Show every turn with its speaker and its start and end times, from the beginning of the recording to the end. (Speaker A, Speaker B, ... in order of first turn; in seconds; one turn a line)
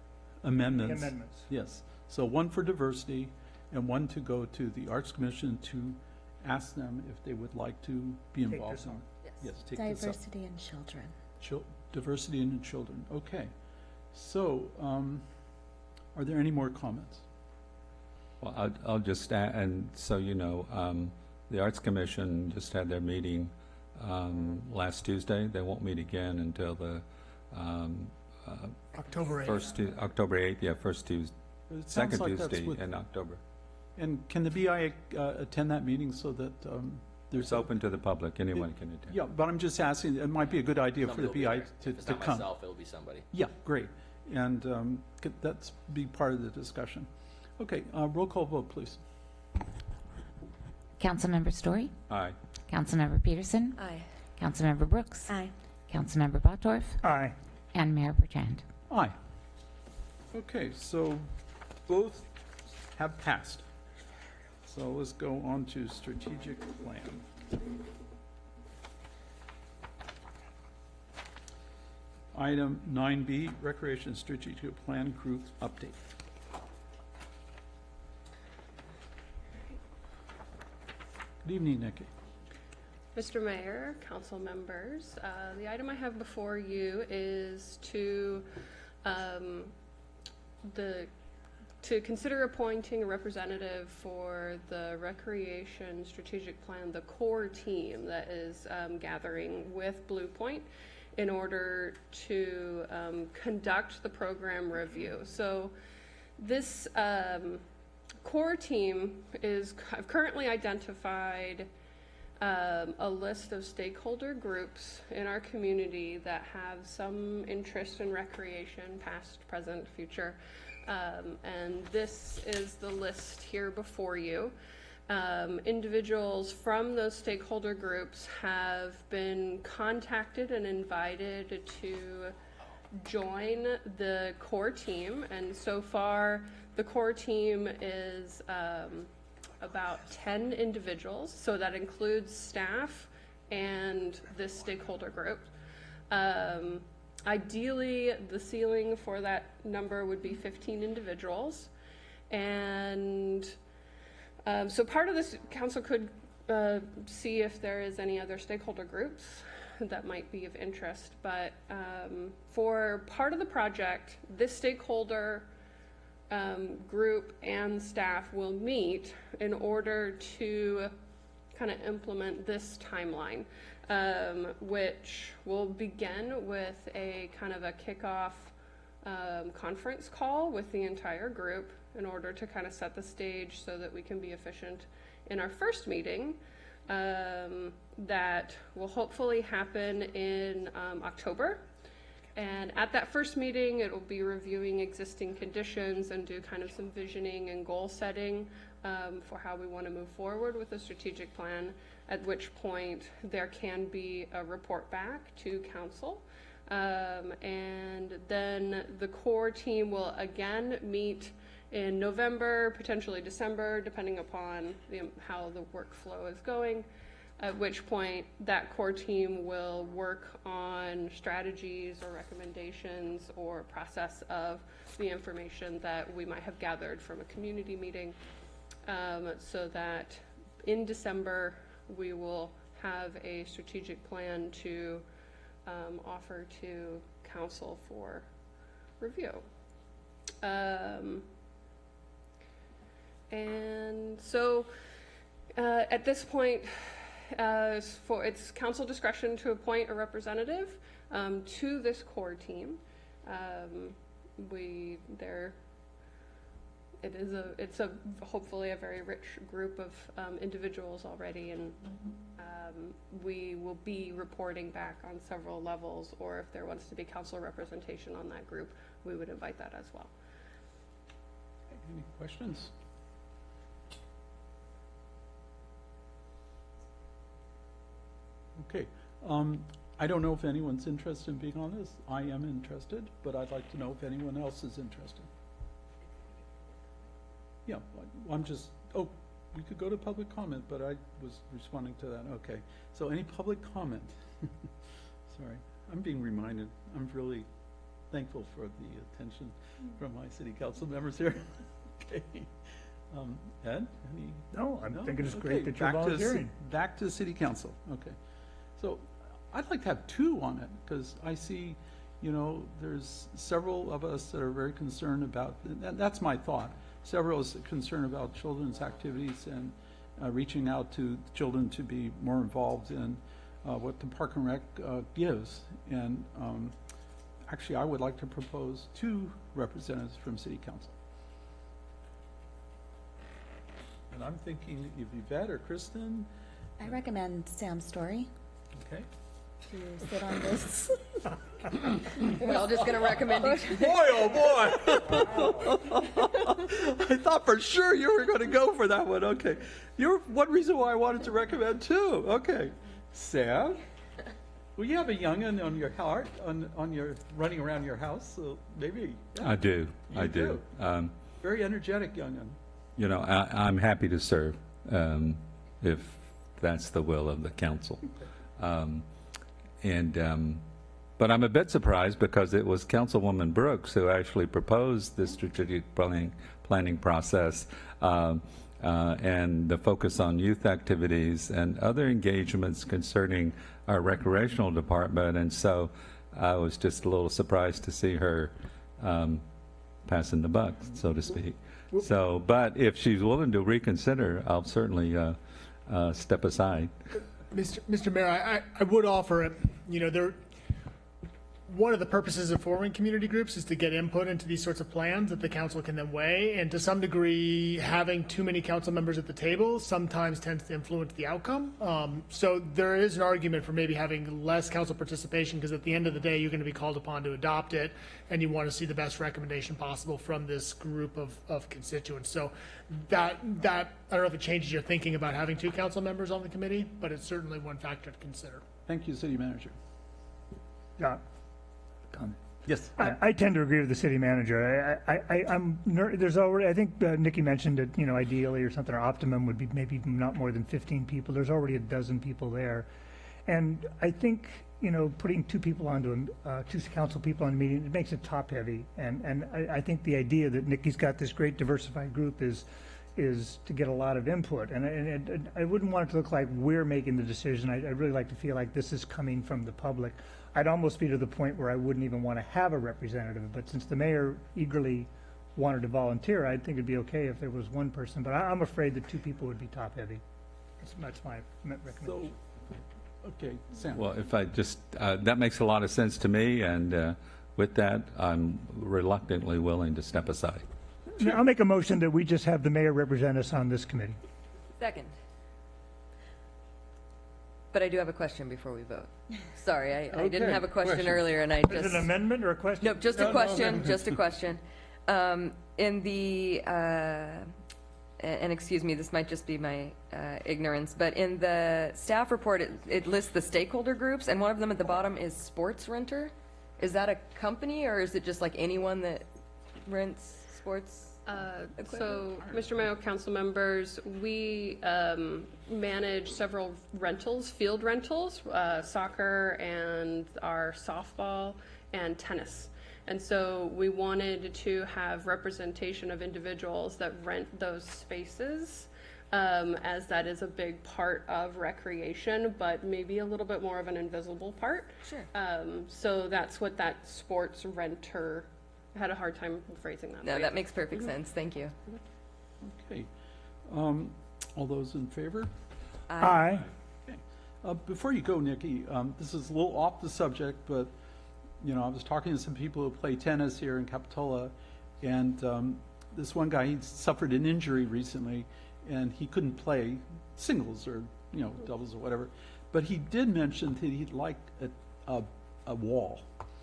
Speaker A: 0.4-10.2
Speaker B: 0.6-1.5
Speaker B: 8.5-9.1
Speaker C: 9.2-9.5
Speaker D: 9.7-11.1
Speaker A: 11.4-13.5
Speaker A: 14.1-15.2
Speaker A: 16.1-17.2
Speaker E: 18.4-31.3
Speaker F: 29.0-29.6
Speaker A: 31.7-32.8
Speaker E: 31.9-33.4
Speaker A: 34.0-37.7
Speaker E: 37.4-39.2
Speaker A: 38.5-42.5
Speaker G: 41.0-43.3
Speaker A: 43.3-49.0
Speaker H: 51.0-51.9
Speaker E: 52.1-52.4
Speaker H: 52.7-53.8
Speaker C: 53.8-54.1
Speaker H: 54.4-55.3
Speaker D: 55.3-55.5
Speaker H: 55.9-57.0
Speaker B: 57.0-57.3
Speaker H: 57.7-58.6
Speaker A: 58.9-59.1
Speaker A: 60.3-63.7
Speaker A: 64.6-67.2
Speaker A: 72.3-76.0
Speaker A: 81.4-82.1
Speaker I: 83.1-88.5
Speaker I: 89.0-89.7
Speaker I: 90.6-91.1
Speaker I: 91.8-105.7
Speaker I: 106.4-107.6
Speaker I: 108.2-111.7
Speaker I: 112.4-124.5
Speaker I: 125.1-132.3
Speaker I: 132.9-139.1
Speaker I: 139.6-145.5
Speaker I: 146.1-151.7
Speaker I: 152.3-153.6
Speaker I: 154.4-165.5
Speaker I: 166.3-170.9
Speaker I: 171.5-191.7
Speaker I: 192.3-216.9
Speaker I: 217.4-228.2
Speaker I: 228.8-235.0
Speaker I: 235.7-238.2
Speaker I: 239.0-239.4
Speaker I: 240.4-241.3
Speaker I: 243.3-244.7
Speaker I: 245.5-255.6
Speaker I: 257.0-261.8
Speaker I: 262.4-270.1
Speaker A: 271.7-272.7
Speaker A: 278.6-285.3
Speaker A: 287.6-294.5
Speaker A: 295.3-297.5
Speaker A: 298.1-308.1
Speaker B: 304.5-306.5
Speaker A: 308.8-326.7
Speaker A: 327.4-330.9
Speaker A: 334.1-336.3
Speaker D: 336.8-338.3
Speaker A: 338.8-339.1
Speaker D: 339.7-341.1
Speaker D: 341.7-342.9
Speaker C: 342.4-344.3
Speaker A: 343.7-353.8
Speaker A: 354.8-360.6
Speaker E: 359.4-361.1
Speaker A: 361.4-362.6
Speaker E: 362.9-369.1
Speaker E: 369.8-370.6
Speaker E: 371.2-389.4
Speaker E: 390.0-396.9
Speaker F: 397.5-400.5
Speaker F: 401.7-428.6
Speaker A: 428.8-429.7
Speaker B: 432.1-432.4
Speaker A: 432.7-433.1
Speaker B: 432.9-442.9
Speaker B: 443.4-470.2
Speaker B: 470.8-472.4
Speaker A: 472.0-472.3
Speaker A: 473.2-474.1
Speaker E: 473.9-480.6
Speaker B: 481.1-484.2
Speaker C: 484.8-485.1
Speaker C: 487.7-492.2
Speaker A: 490.1-491.4
Speaker B: 491.6-493.9
Speaker C: 492.8-497.5
Speaker A: 493.5-494.2
Speaker C: 498.2-509.2
Speaker C: 509.8-511.2
Speaker I: 511.2-541.1
Speaker A: 511.9-512.9
Speaker C: 535.0-535.3
Speaker C: 540.2-541.7
Speaker A: 542.6-543.1
Speaker A: 543.6-545.5
Speaker C: 546.1-546.6
Speaker B: 546.2-546.7
Speaker A: 547.0-550.9
Speaker A: 551.6-566.3